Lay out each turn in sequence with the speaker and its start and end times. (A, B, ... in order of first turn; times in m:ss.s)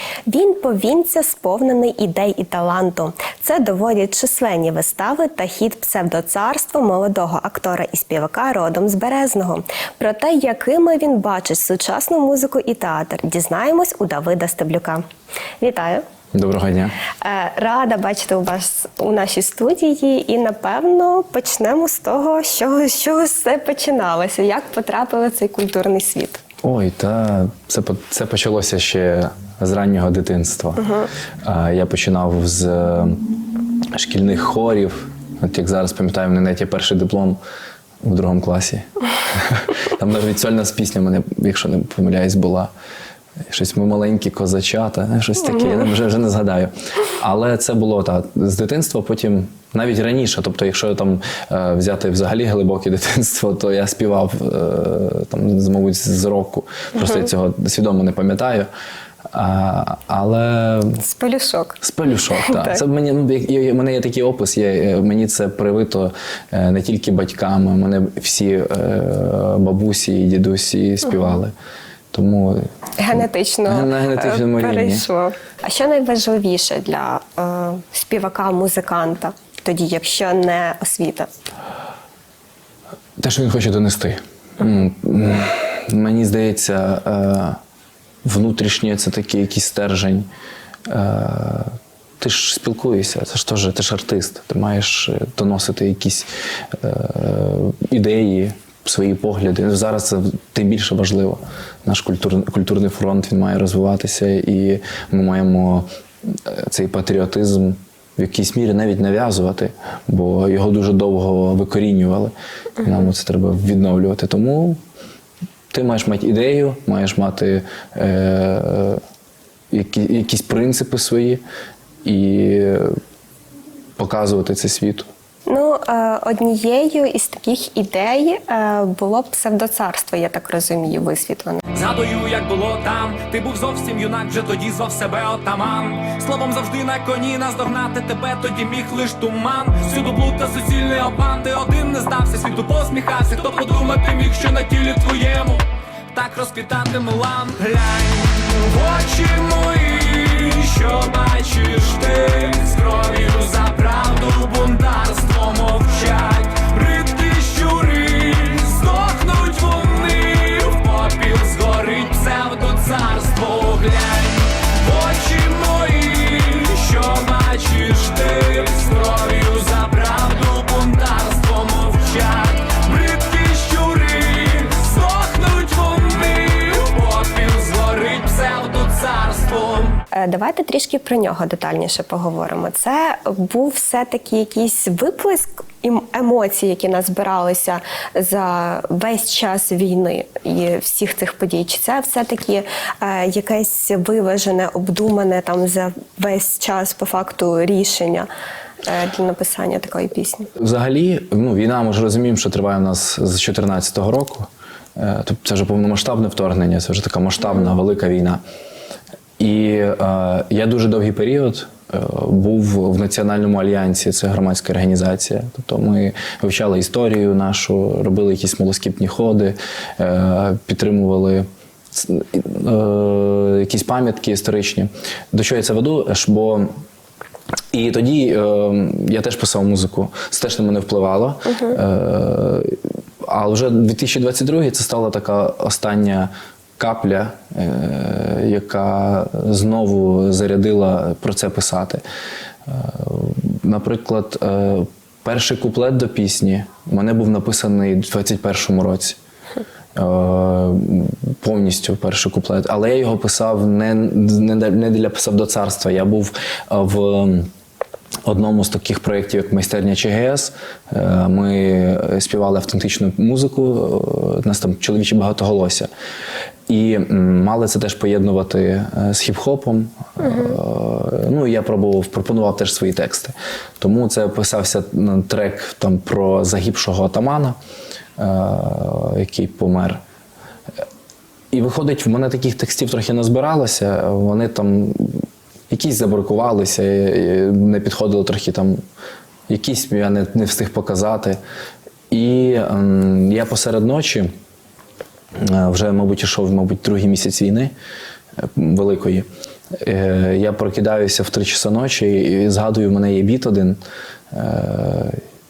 0:00.3-0:15.0 A
0:15.6-0:16.0 A
0:16.3-0:17.0 B
0:17.2-0:26.4 A
0:26.6-0:33.2 B
0:33.9-0:37.4 B
0:38.0-0:42.7 B
0:43.5-0:58.7 B
0:59.3-1:01.0 B
1:01.0-1:01.8 A
1:01.8-1:11.5 B
1:02.4-1:02.8 A
1:12.1-1:15.1 B
1:13.0-1:21.3 A
1:23.2-1:27.6 B
1:28.2-1:30.3 B
1:30.9-1:54.8 B
1:55.7-1:59.0 B
1:59.7-2:01.4 B
2:02.0-2:03.0 B
2:04.0-2:05.1 B
2:05.5-2:11.6 A
2:11.8-3:00.0 C
3:00.1-3:18.3 A
3:18.8-3:20.5 A
3:20.6-3:28.4 B
3:29.4-3:46.7 B
3:47.7-4:02.0 B
4:02.7-4:09.2 B
4:10.0-4:17.5 B
4:18.2-4:25.9 B
4:26.7-4:37.6 B
4:30.2-4:30.6 A
4:38.2-4:40.0 B
4:41.5-4:48.8 B
4:49.5-4:51.4 B
4:52.1-4:54.3 B
4:55.4-4:57.7 B
4:58.4-5:03.8 B
5:04.3-5:05.2 B